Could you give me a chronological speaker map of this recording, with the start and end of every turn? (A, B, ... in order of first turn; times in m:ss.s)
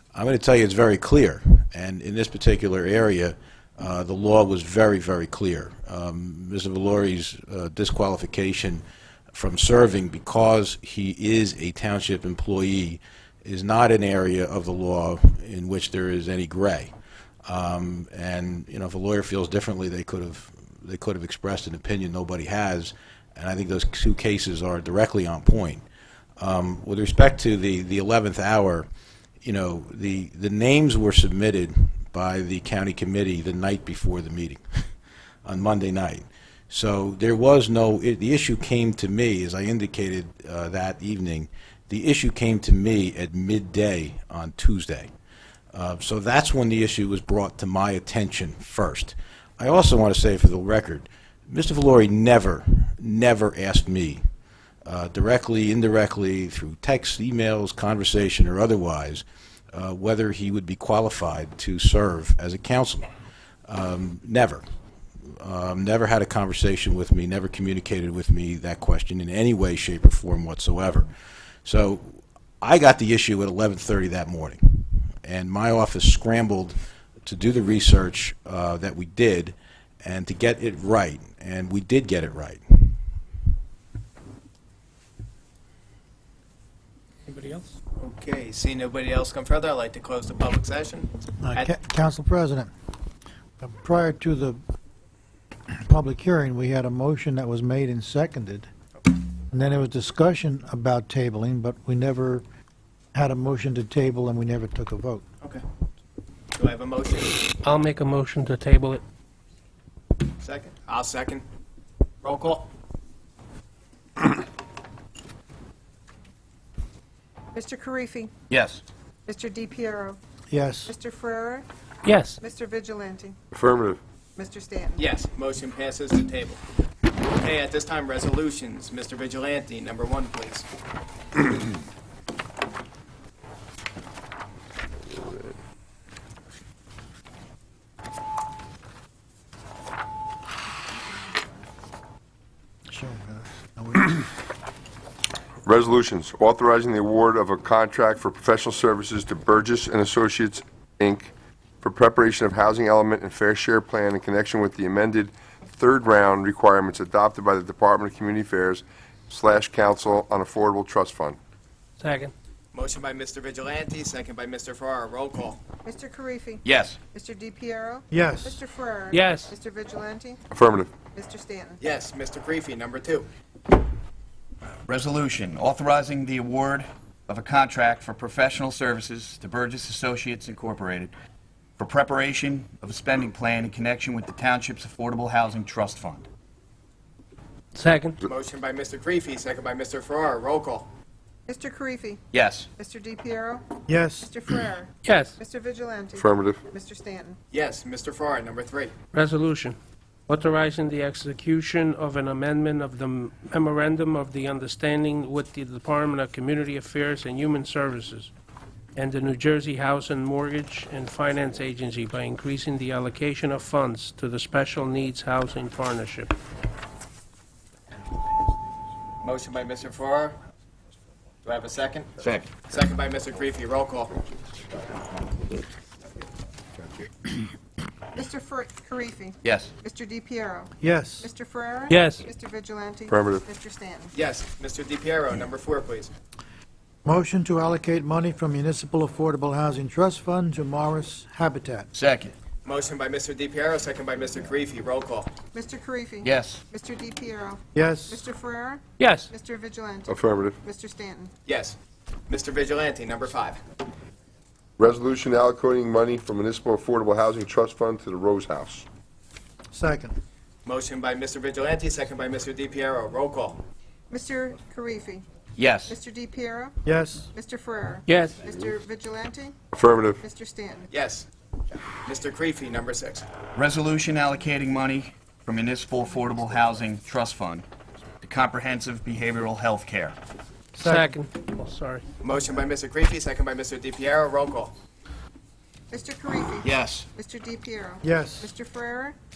0:00.1-0:16.9 A
0:17.4-0:25.8 A
0:26.4-0:28.9 A
0:29.4-0:34.6 A
0:35.4-0:45.1 A
0:45.7-0:54.2 A
0:54.8-1:03.1 A
1:03.7-1:04.6 A
1:05.4-1:11.1 A
1:11.6-1:23.0 A
1:27.3-1:27.7 B
1:28.0-1:31.7 C
1:31.4-1:32.7 D
1:33.6-1:34.6 D
1:35.9-1:38.7 D
1:39.5-1:42.4 D
1:43.1-1:45.2 D
1:46.5-1:47.4 C
1:47.6-1:49.0 B
1:50.4-1:51.4 C
1:52.2-1:52.7 C
1:57.5-1:58.3 E
1:58.5-1:58.8 F
1:59.3-2:00.2 E
2:00.5-2:00.9 D
2:00.8-2:01.7 E
2:02.0-2:02.4 B
2:02.4-2:03.4 E
2:03.5-2:04.0 G
2:04.4-2:05.0 E
2:05.0-2:06.6 C
2:07.3-2:10.7 C
2:22.9-2:24.2 D
2:25.6-2:31.3 G
2:31.8-2:41.4 G
2:42.0-2:42.3 B
2:42.7-2:45.6 C
2:45.8-2:50.4 E
2:46.6-2:47.0 F
2:48.1-2:48.6 D
2:49.1-2:49.5 B
2:50.5-2:50.9 G
2:51.1-2:51.8 E
2:51.8-2:53.2 C
2:54.9-3:01.1 F
3:01.8-3:06.3 F
3:07.8-3:08.2 B
3:08.2-3:10.9 C
3:11.5-3:12.2 E
3:12.3-3:12.7 F
3:12.8-3:17.4 E
3:13.9-3:14.3 D
3:15.0-3:15.4 B
3:16.2-3:16.6 G
3:17.5-3:18.9 C
3:19.1-3:19.8 B
3:20.3-3:28.3 B
3:28.9-3:36.3 B
3:39.2-3:40.4 C
3:41.4-3:44.2 C
3:42.2-3:42.5 F
3:48.1-3:54.1 E
3:50.8-3:51.3 D
3:51.9-3:52.2 B
3:53.1-3:53.4 G
3:54.1-3:56.1 C
3:57.0-4:01.9 D
4:02.0-4:02.3 F
4:02.6-4:05.3 C
4:05.5-4:11.3 E
4:06.2-4:06.6 F
4:07.8-4:08.2 D
4:09.0-4:09.3 B
4:10.1-4:10.6 G
4:11.5-4:11.8 C
4:12.3-4:13.6 C
4:14.8-4:18.8 G
4:19.7-4:20.2 D
4:20.6-4:23.6 C
4:24.1-4:25.2 E
4:25.6-4:26.0 F
4:25.8-4:26.8 E
4:26.8-4:27.3 D
4:27.3-4:29.6 E
4:28.1-4:28.4 B
4:29.7-4:30.2 G
4:30.2-4:30.9 E
4:30.9-4:31.2 C
4:32.0-4:33.2 C
4:33.5-4:37.6 F
4:38.2-4:40.2 F
4:40.7-4:41.2 D
4:40.8-4:42.0 B
4:42.2-4:44.7 C
4:45.9-4:49.2 E
4:46.6-4:47.0 F
4:48.0-4:48.5 D